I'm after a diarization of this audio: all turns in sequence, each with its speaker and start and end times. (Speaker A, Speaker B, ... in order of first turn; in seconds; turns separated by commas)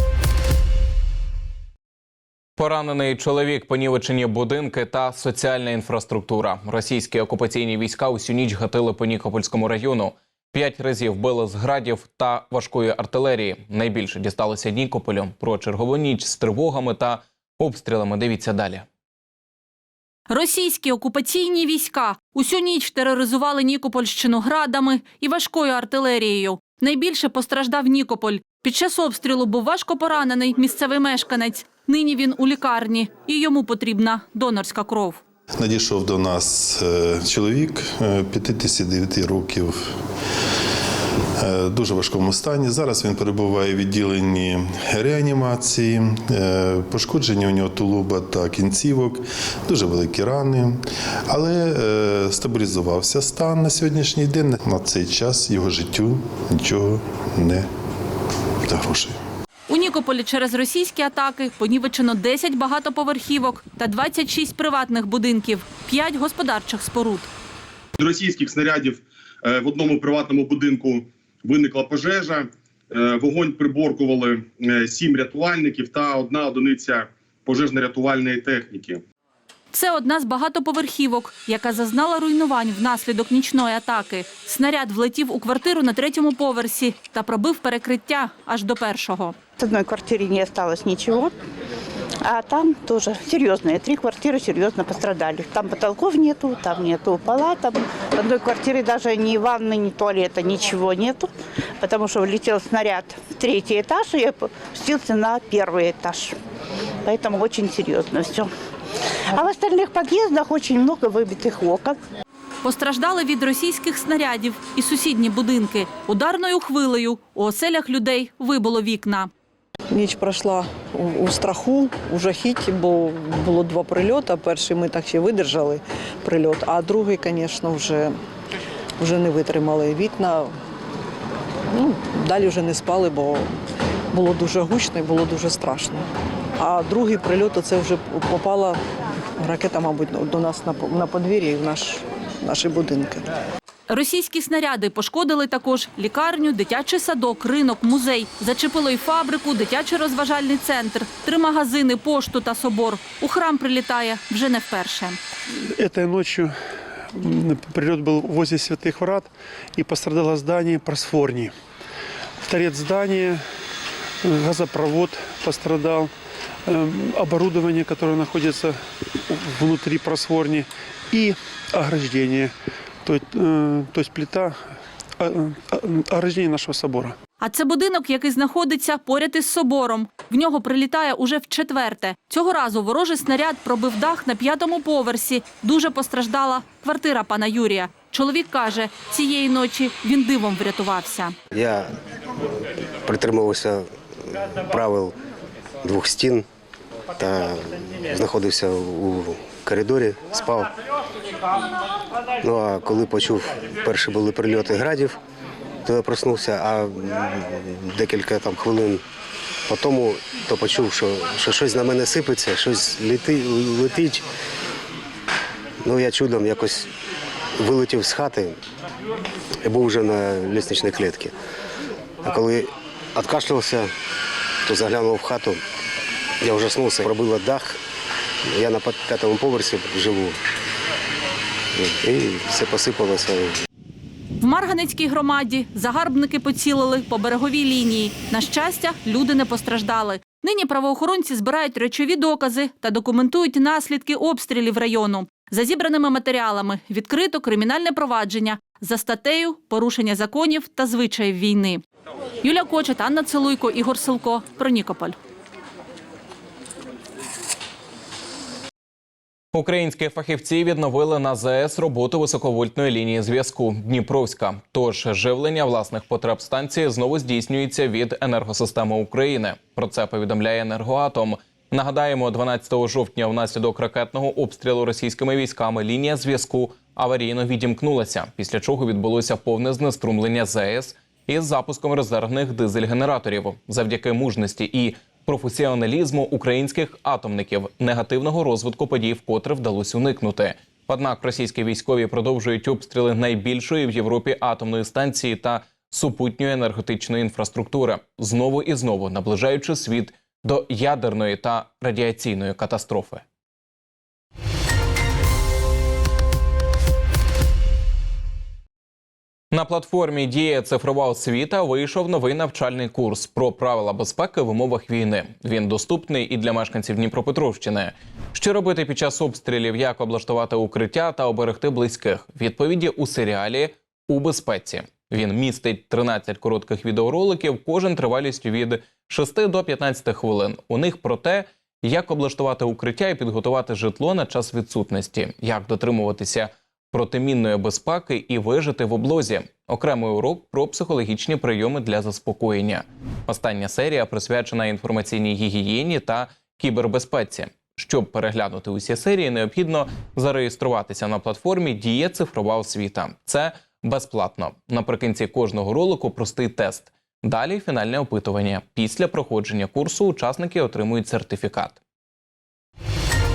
Speaker A: 2.6-18.9, Speaker B: 20.3-35.2, Speaker C: 35.6-39.7, Speaker C: 41.4-50.8, Speaker C: 51.3-57.6, Speaker C: 58.7-59.1, Speaker B: 59.7-67.3, Speaker D: 68.0-79.0, Speaker B: 79.7-89.3, Speaker E: 89.6-91.3, Speaker E: 92.2-101.3, Speaker E: 101.8-106.3, Speaker E: 107.0-108.5, Speaker E: 109.3-112.0, Speaker B: 112.6-119.3, Speaker F: 119.9-128.2, Speaker F: 129.0-130.5, Speaker F: 131.7-133.5, Speaker F: 134.1-138.8, Speaker F: 139.4-143.3, Speaker B: 143.9-155.2, Speaker G: 155.8-156.5, Speaker G: 157.1-161.5, Speaker G: 162.4-163.4, Speaker G: 164.2-166.1, Speaker G: 166.7-172.5, Speaker G: 173.0-174.5, Speaker G: 175.2-177.2, Speaker B: 177.4-191.3, Speaker H: 191.5-191.9, Speaker H: 193.0-195.1, Speaker H: 195.8-196.4, Speaker H: 197.2-200.7, Speaker H: 202.4-205.2, Speaker H: 205.8-209.0, Speaker H: 209.7-214.2, Speaker H: 215.8-216.9, Speaker H: 217.6-218.6, Speaker H: 219.6-221.3, Speaker H: 222.2-223.9, Speaker H: 224.7-225.6, Speaker H: 226.4-227.8, Speaker H: 228.5-230.4, Speaker H: 231.8-233.6, Speaker B: 234.4-251.8, Speaker B: 252.4-255.2, Speaker A: 259.5-303.2, Speaker A: 309.5-361.8